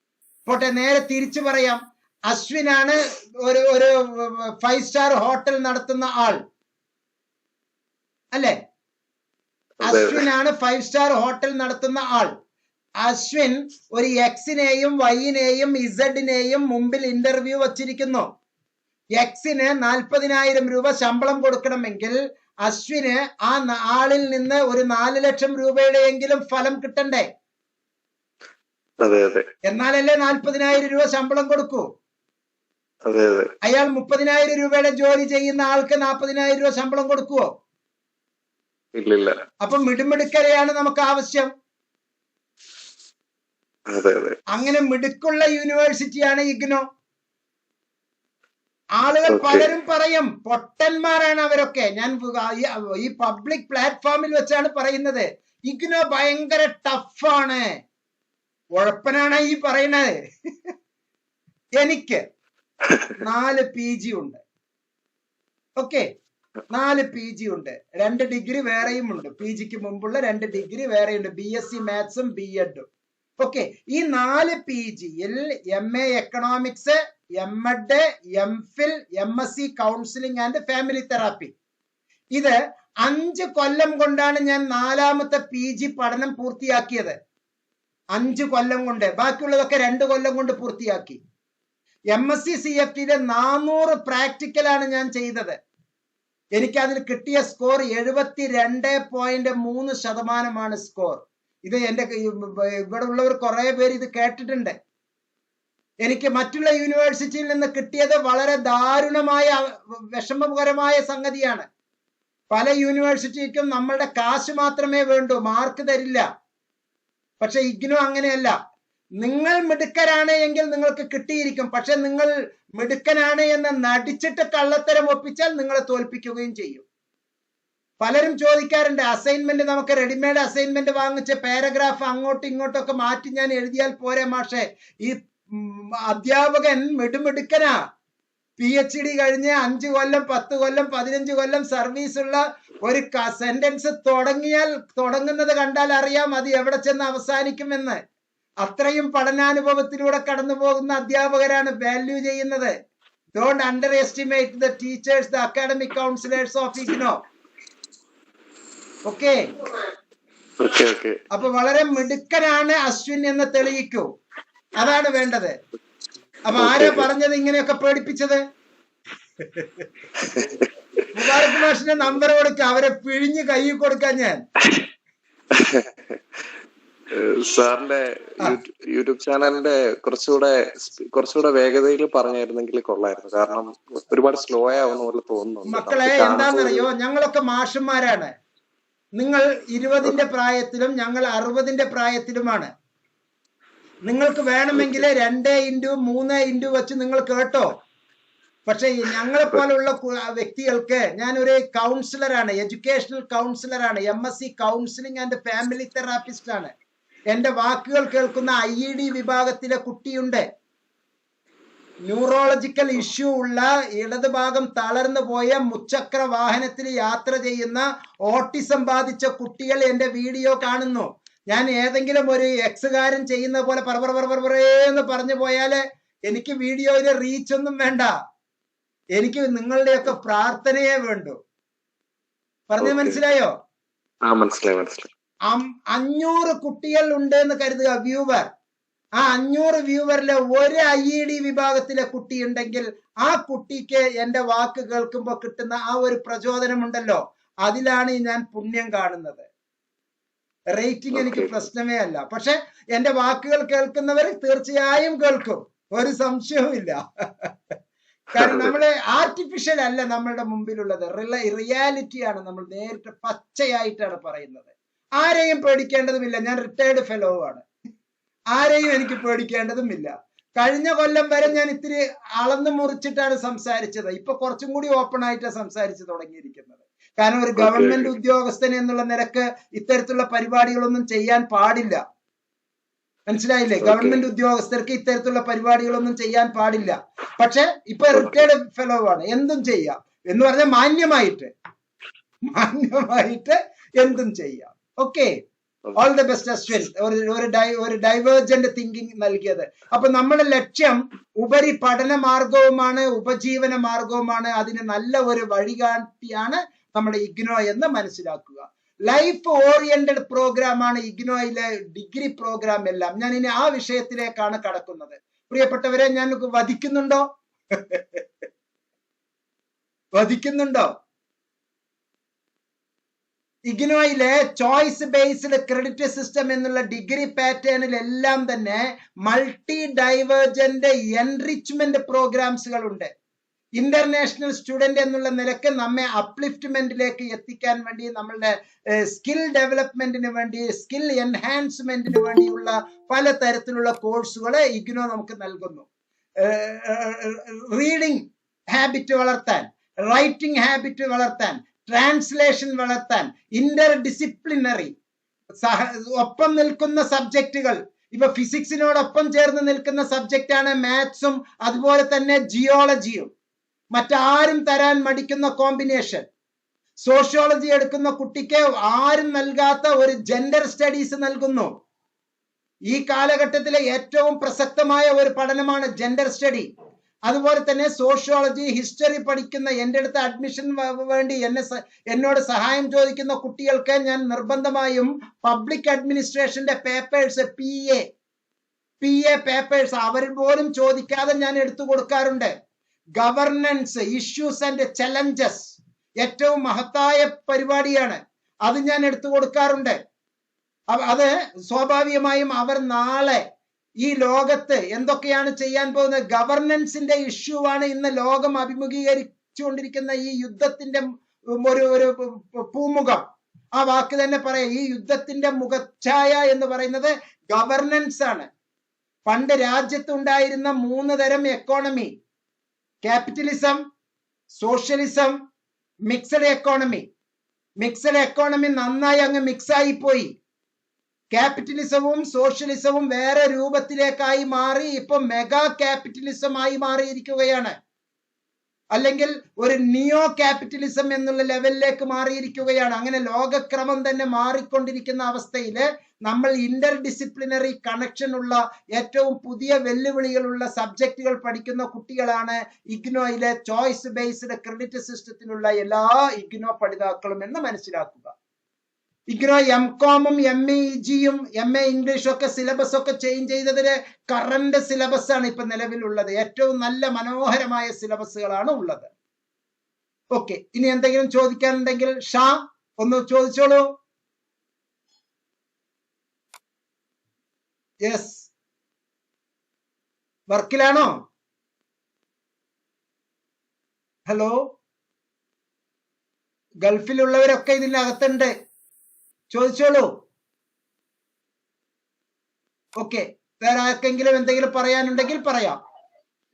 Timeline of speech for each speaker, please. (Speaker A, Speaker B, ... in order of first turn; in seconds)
Speaker A: 0.5-6.4, 9.8-12.3, 13.0-18.3, 19.2-27.3, 29.7-31.8, 33.6-37.5, 39.6-41.5, 44.5-46.8, 49.0-57.7, 58.8-60.2, 61.8-62.2, 63.2-64.4, 65.8-66.1, 66.7-72.9, 73.4-81.5, 82.3-87.2, 88.1-91.2, 92.1-95.6, 96.5-104.8, 106.0-111.7, 112.5-116.2, 117.4-118.5, 119.2-126.8, 128.0-137.7, 138.6-148.0, 148.6-152.7, 153.3-157.2, 159.1-159.4, 161.3-164.1, 164.8-165.5, 166.5-168.4, 169.4-169.9, 171.2-174.4, 185.7-188.3, 189.2-192.7, 194.1-197.7, 198.7-206.7, 207.3-210.5, 212.1-228.1, 229.2-231.4, 232.7-233.5, 235.5-238.5, 239.2-249.5, 250.7-257.5, 258.4-267.6, 268.5-282.0, 283.3-291.5, 292.5-295.3, 296.0-317.2, 317.8-318.2, 320.1-320.9, 323.7-333.1, 333.8-345.9, 346.4-354.9, 355.6-363.3, 363.9-366.3, 367.0-371.7, 372.9-376.7, 377.3-388.0, 389.0-392.5, 393.2-400.0, 400.9-403.4, 404.0-418.5, 419.3-422.1, 423.0-423.8, 424.6-425.4, 426.1-427.1, 427.8-430.3, 431.3-437.8, 438.9-458.3, 459.3-469.1, 470.3-473.9, 478.0-478.5, 480.5-481.2, 484.3-484.6, 486.8-488.5, 489.5-490.1, 493.0-495.8
Speaker B: 9.8-10.3, 29.0-29.5, 33.0-33.5, 39.0-39.4, 43.9-44.4, 49.3-49.7, 160.6-161.2, 166.6-167.1, 177.2-186.9, 194.7-195.1, 232.8-233.2, 234.2-235.1, 251.2-251.6, 258.4-258.8, 277.6-278.1, 283.8-284.2, 288.2-288.4